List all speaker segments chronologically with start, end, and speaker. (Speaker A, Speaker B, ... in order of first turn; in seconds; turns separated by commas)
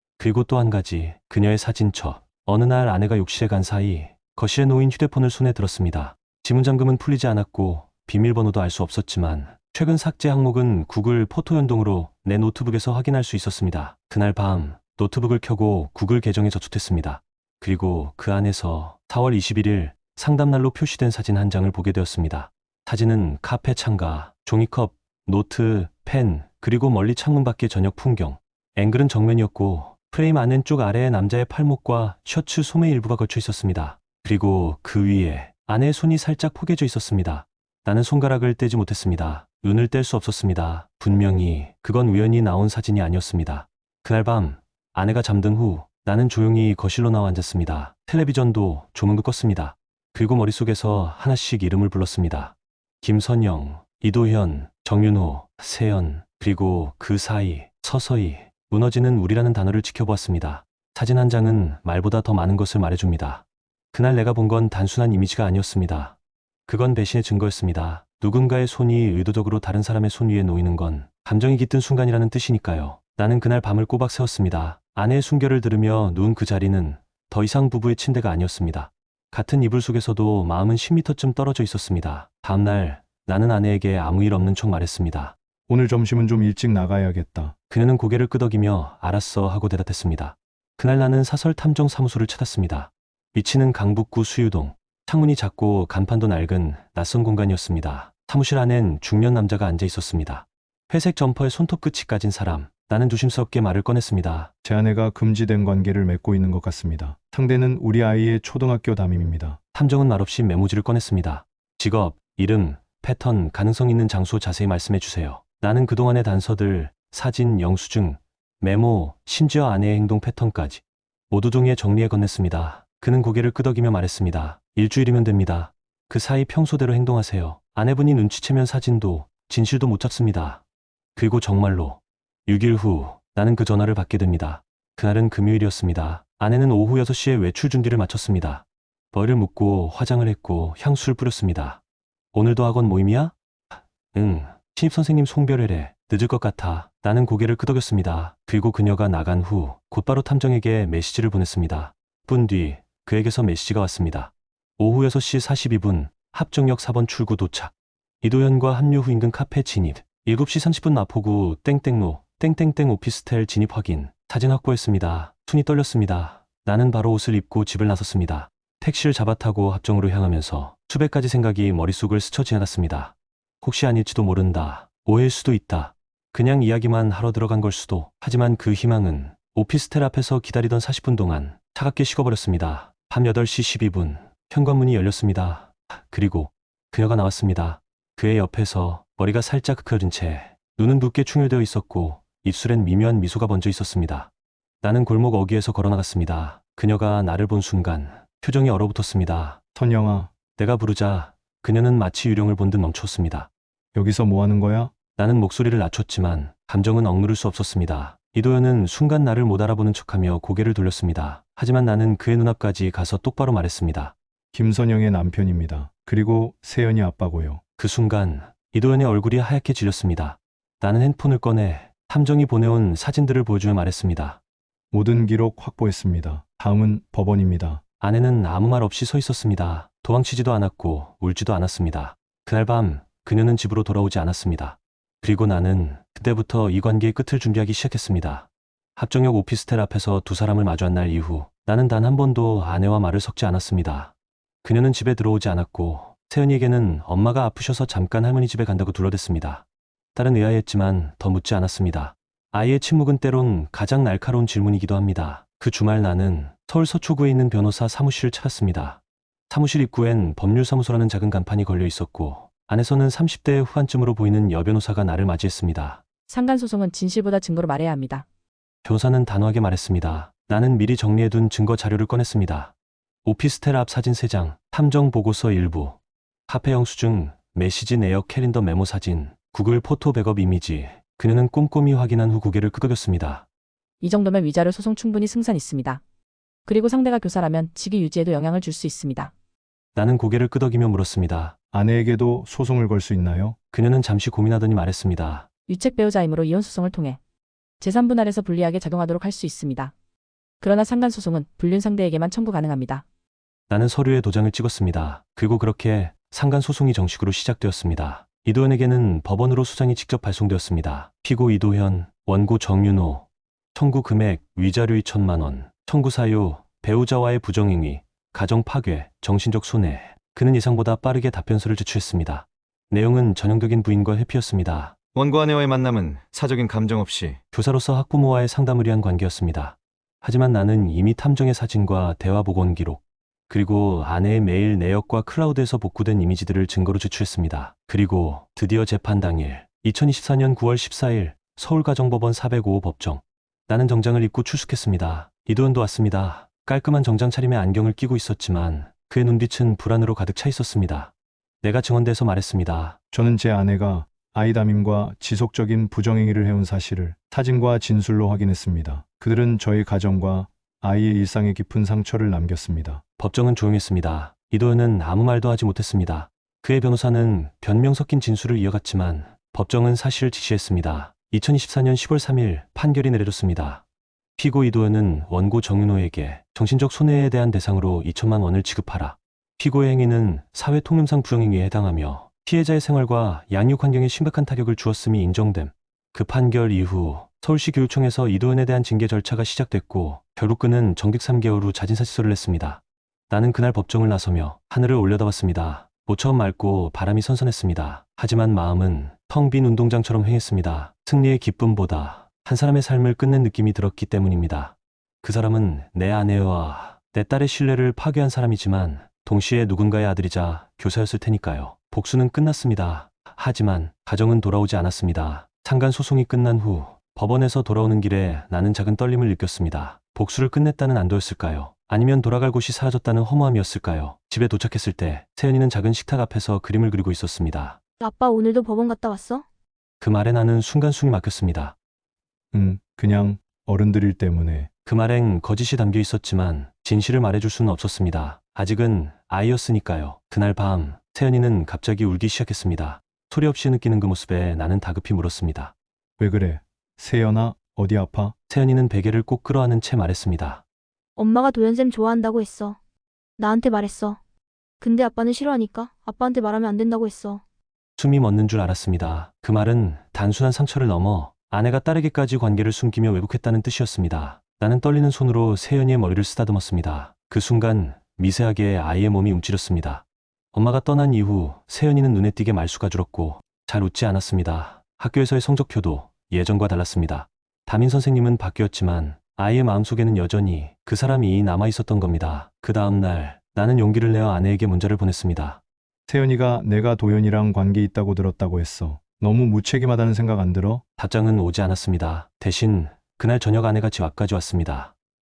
Speaker A: 0.2-66.2, Speaker A: 66.7-85.3, Speaker B: 85.7-87.5, Speaker A: 87.7-104.5, Speaker B: 104.6-109.6, Speaker A: 109.7-130.6, Speaker A: 131.2-141.8, Speaker A: 142.3-143.3, Speaker A: 144.1-194.3, Speaker A: 194.8-199.6, Speaker B: 199.7-200.3, Speaker A: 200.6-203.5, Speaker B: 203.9-204.9, Speaker A: 205.2-214.1, Speaker B: 214.5-217.6, Speaker A: 217.8-224.4, Speaker B: 224.9-227.8, Speaker A: 228.0-244.1, Speaker A: 244.6-266.0, Speaker C: 266.3-268.2, Speaker A: 268.8-272.7, Speaker A: 273.2-283.4, Speaker C: 284.0-286.0, Speaker C: 286.6-289.3, Speaker A: 289.9-291.5, Speaker B: 291.7-293.6, Speaker A: 293.7-295.5, Speaker C: 295.7-297.2, Speaker C: 297.8-299.9, Speaker C: 300.6-303.0, Speaker A: 303.7-324.9, Speaker D: 325.1-327.4, Speaker A: 327.5-353.0, Speaker B: 353.1-363.0, Speaker A: 363.2-373.8, Speaker A: 374.4-427.8, Speaker E: 428.0-429.4, Speaker A: 430.0-431.7, Speaker B: 432.5-434.7, Speaker A: 434.8-445.7, Speaker B: 446.2-448.3, Speaker A: 448.5-450.6, Speaker E: 451.2-452.8, Speaker E: 453.4-454.2, Speaker E: 454.8-457.4, Speaker A: 458.0-485.6, Speaker B: 486.1-490.8, Speaker A: 491.0-494.9